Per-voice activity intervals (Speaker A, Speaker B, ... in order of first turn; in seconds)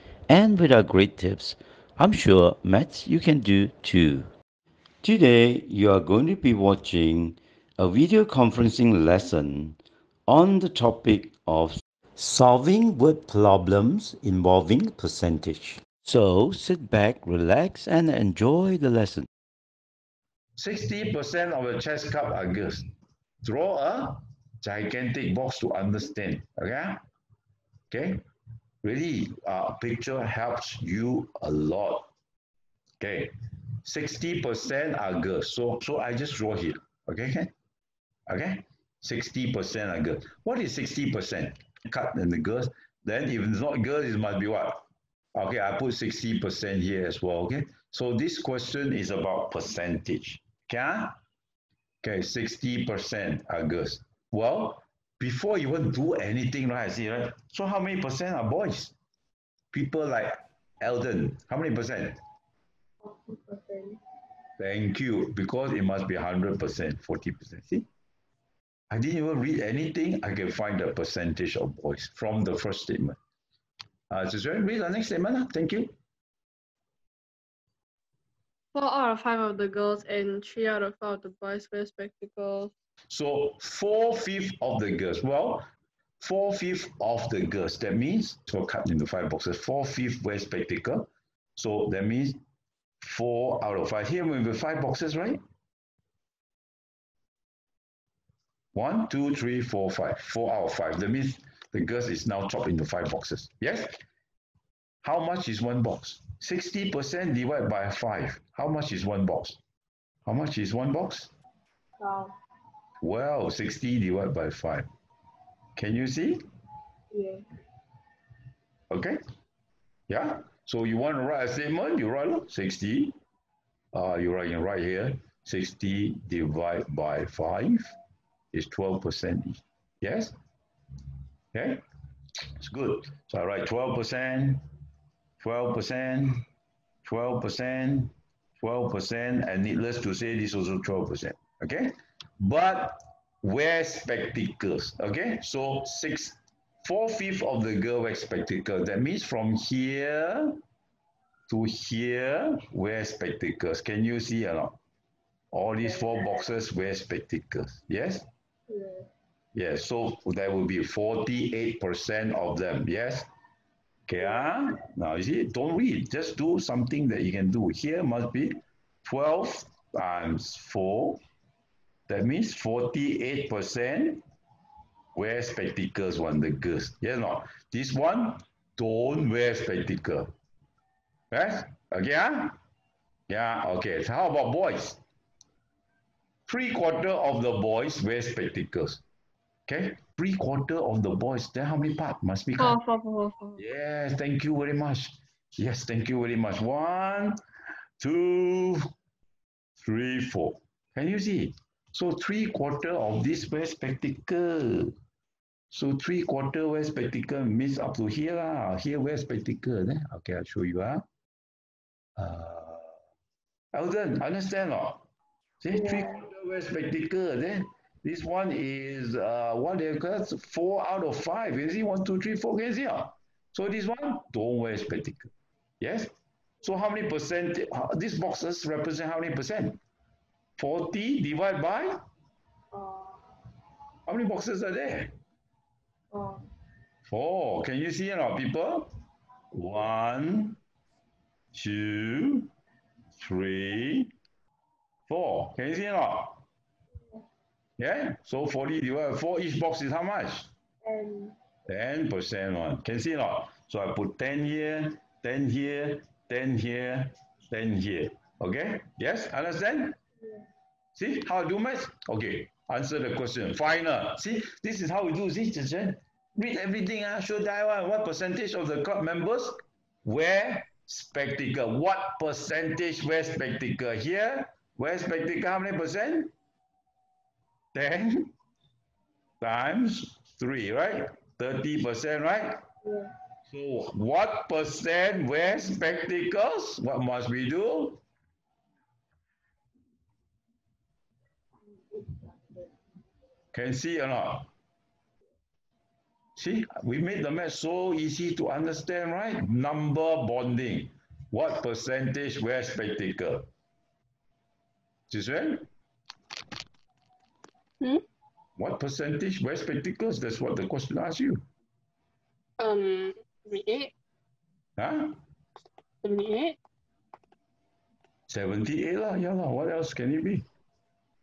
Speaker A: 0.3-4.3, 5.0-19.3
Speaker B: 20.6-22.9, 23.4-27.0, 27.9-28.2, 28.8-32.1, 33.0-37.5, 38.3-51.2, 52.0-58.9, 59.7-62.2, 64.6-67.9, 68.9-73.2, 74.1-76.0, 83.1-85.7, 86.2-92.4, 93.0-95.4, 98.7-103.9, 105.0-109.6, 110.2-111.3, 113.0-114.9, 115.8-116.4, 118.9-119.2, 120.1-123.2, 123.9-127.9, 128.5-130.3, 131.5-131.8, 132.6-134.6, 135.4-136.4, 137.0-150.6, 151.5-154.8, 155.5-158.3, 159.5-163.3, 164.1-171.2, 172.1-174.2, 175.2-180.3, 181.3-182.6, 183.3-185.0, 186.5-189.0, 189.7-192.8, 193.6-197.4, 198.0-198.8, 199.8-204.9, 205.7-211.1, 212.2-212.9, 213.7-215.1, 215.6-226.1, 226.6-229.8, 230.6-232.0, 234.1-235.1, 237.1-238.9, 239.5-240.6, 241.5-242.5, 243.2-244.1, 245.1-246.4, 247.8-250.5, 251.7-260.0, 260.9-276.3, 277.7-278.3, 279.4-282.6, 283.5-288.0, 293.5-294.5, 296.4-303.5, 305.1-305.7, 308.6-311.4, 314.8-315.1, 318.3-320.4
Speaker C: 63.0-64.0, 78.8-82.7, 112.0-112.3, 117.1-117.4, 155.8-156.5, 158.7-159.1, 192.6-193.6, 215.7-216.2, 232.7-233.3, 236.1-236.4, 250.8-251.4, 282.8-283.1, 291.7-292.7, 312.6-313.9, 316.0-316.6